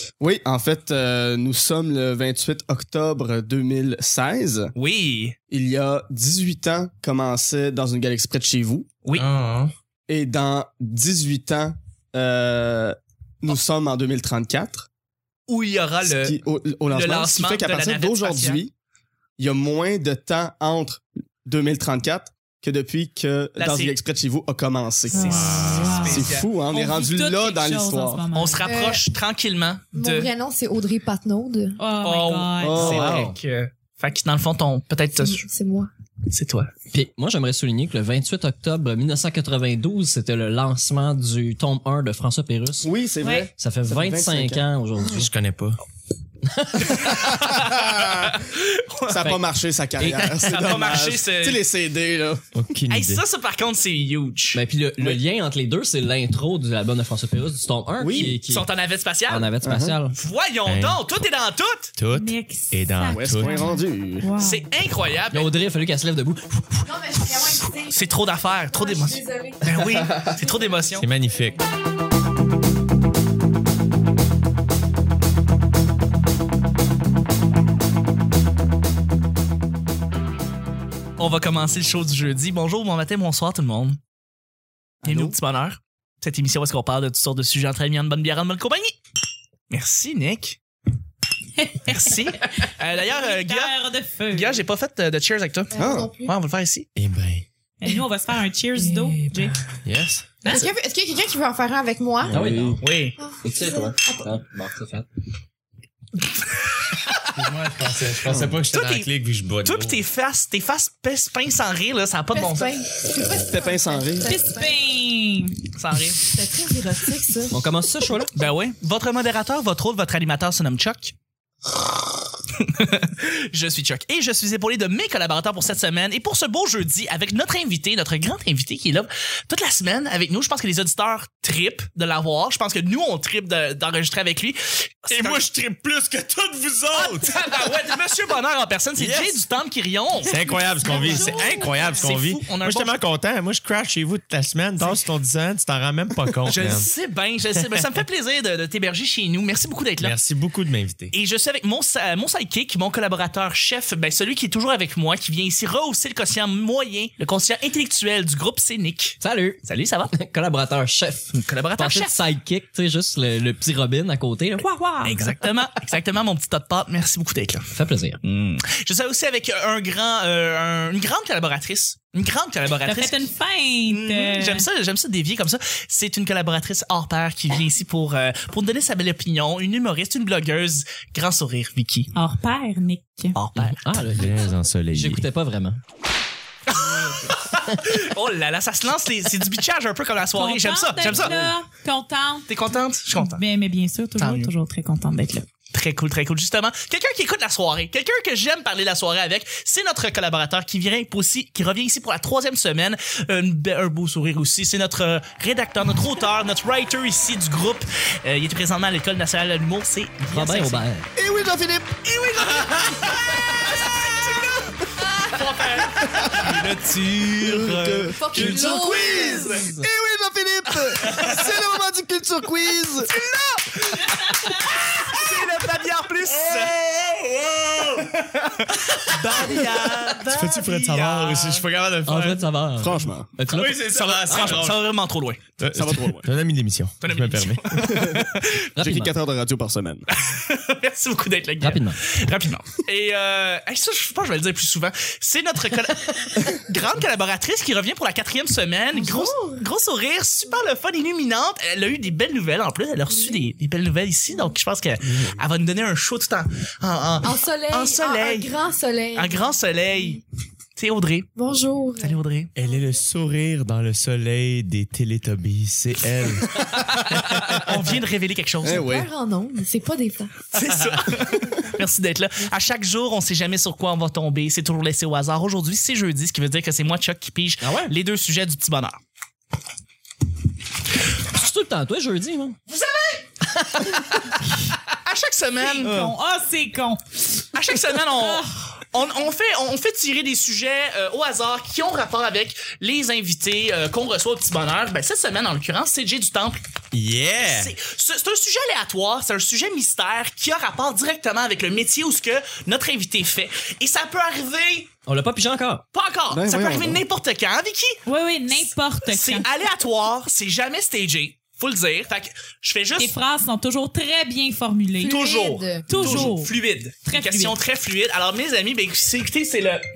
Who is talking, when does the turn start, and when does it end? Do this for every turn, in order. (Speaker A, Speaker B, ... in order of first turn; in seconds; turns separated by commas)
Speaker A: 0.2-4.7, Speaker B: 4.7-5.4, Speaker A: 5.5-8.9, Speaker C: 9.1-9.7, Speaker A: 10.1-14.9, Speaker B: 15.5-16.4, Speaker A: 16.0-18.7, Speaker B: 16.9-18.6, Speaker A: 19.4-28.2, Speaker B: 23.6-23.9, Speaker B: 25.1-26.5, Speaker D: 25.1-28.7, Speaker C: 25.2-26.1, Speaker B: 28.3-30.3, Speaker E: 28.6-29.1, Speaker E: 29.9-31.8, Speaker D: 31.8-32.9, Speaker B: 32.0-35.4, Speaker A: 32.6-33.3, Speaker F: 32.8-33.3, Speaker E: 35.2-35.9, Speaker B: 36.3-36.7, Speaker F: 36.9-42.9, Speaker A: 42.8-44.6, Speaker D: 43.2-43.5, Speaker F: 43.6-45.3, Speaker C: 45.1-45.8, Speaker F: 46.5-47.4, Speaker B: 46.8-49.1, Speaker A: 49.1-52.5, Speaker F: 49.2-49.5, Speaker F: 50.0-50.9, Speaker B: 50.4-51.6, Speaker C: 52.5-53.2, Speaker B: 52.9-54.6, Speaker F: 54.5-58.7, Speaker A: 58.0-58.4, Speaker B: 58.1-59.5, Speaker F: 59.3-60.2, Speaker A: 59.6-60.0, Speaker B: 60.1-61.9, Speaker C: 60.6-61.0, Speaker C: 62.0-63.8, Speaker D: 62.1-64.6, Speaker A: 63.1-64.3, Speaker B: 64.4-65.5, Speaker F: 65.3-66.9, Speaker E: 66.8-70.7, Speaker B: 67.8-71.1, Speaker C: 71.0-71.6, Speaker B: 81.2-84.0, Speaker A: 85.0-85.4, Speaker B: 85.0-89.0, Speaker B: 89.7-90.6, Speaker D: 91.6-94.6, Speaker B: 91.9-93.7, Speaker B: 94.3-96.9, Speaker E: 95.7-96.3, Speaker A: 95.7-96.1, Speaker C: 97.0-97.5, Speaker D: 97.8-99.6, Speaker B: 98.9-99.4, Speaker C: 99.8-100.4, Speaker E: 100.5-104.2, Speaker F: 102.3-102.8, Speaker A: 102.3-102.8, Speaker B: 102.8-103.2, Speaker F: 103.4-105.1, Speaker C: 107.3-110.0, Speaker A: 108.3-108.6, Speaker B: 108.7-109.1, Speaker B: 109.6-112.8, Speaker E: 112.3-114.8, Speaker A: 113.3-114.4, Speaker D: 114.2-115.6, Speaker B: 115.8-116.2, Speaker E: 116.2-117.6, Speaker F: 117.5-118.3, Speaker B: 118.3-121.1, Speaker B: 122.6-135.4, Speaker C: 135.1-137.4, Speaker B: 136.9-142.9, Speaker C: 139.0-139.4, Speaker C: 140.2-146.9, Speaker D: 140.8-142.0, Speaker B: 146.5-150.2, Speaker C: 150.0-151.1, Speaker B: 151.1-160.1, Speaker F: 159.2-164.7, Speaker B: 161.3-162.2, Speaker D: 164.6-165.3, Speaker B: 165.0-173.3, Speaker F: 167.7-168.2, Speaker D: 172.9-174.7, Speaker B: 173.9-182.1, Speaker D: 182.2-183.4, Speaker B: 183.3-183.9, Speaker F: 183.6-185.8, Speaker C: 184.1-185.3, Speaker B: 186.7-191.4, Speaker F: 187.5-187.9, Speaker D: 190.3-195.5, Speaker F: 191.2-191.5, Speaker B: 192.5-193.4, Speaker B: 194.2-194.5, Speaker B: 195.7-210.8, Speaker F: 210.2-211.1, Speaker A: 211.2-213.2, Speaker B: 212.4-219.7, Speaker A: 215.8-216.8, Speaker A: 217.3-223.1, Speaker E: 218.1-219.7, Speaker B: 220.9-221.4, Speaker C: 221.1-221.4, Speaker B: 223.1-226.8, Speaker C: 226.4-232.5, Speaker B: 228.8-231.7, Speaker F: 232.1-234.6, Speaker A: 232.8-233.3, Speaker C: 233.5-234.8, Speaker B: 233.6-235.4, Speaker C: 235.6-238.2, Speaker A: 235.8-236.2, Speaker B: 237.0-238.7, Speaker F: 238.8-239.1, Speaker A: 238.8-240.1, Speaker B: 240.1-258.5, Speaker F: 241.6-242.0, Speaker E: 248.9-249.6, Speaker E: 257.2-260.2, Speaker B: 259.1-260.2, Speaker B: 260.8-261.3, Speaker E: 261.4-263.0, Speaker B: 262.0-262.5, Speaker C: 262.6-267.8, Speaker B: 266.7-268.9, Speaker A: 268.6-269.1, Speaker E: 268.7-270.3, Speaker B: 270.5-279.0, Speaker C: 270.6-271.0, Speaker F: 277.6-277.9, Speaker F: 281.2-282.6, Speaker B: 282.7-283.2, Speaker F: 283.6-284.3, Speaker B: 284.9-285.9, Speaker D: 285.6-287.2, Speaker B: 287.5-296.6, Speaker D: 287.9-288.6, Speaker C: 296.9-297.7, Speaker B: 297.4-304.9, Speaker F: 305.1-305.8, Speaker B: 305.9-308.0, Speaker A: 306.3-307.0, Speaker D: 308.1-309.5, Speaker B: 309.1-313.1, Speaker D: 313.0-315.2, Speaker E: 315.0-316.3, Speaker B: 315.0-319.9, Speaker D: 315.9-316.5, Speaker D: 317.1-317.6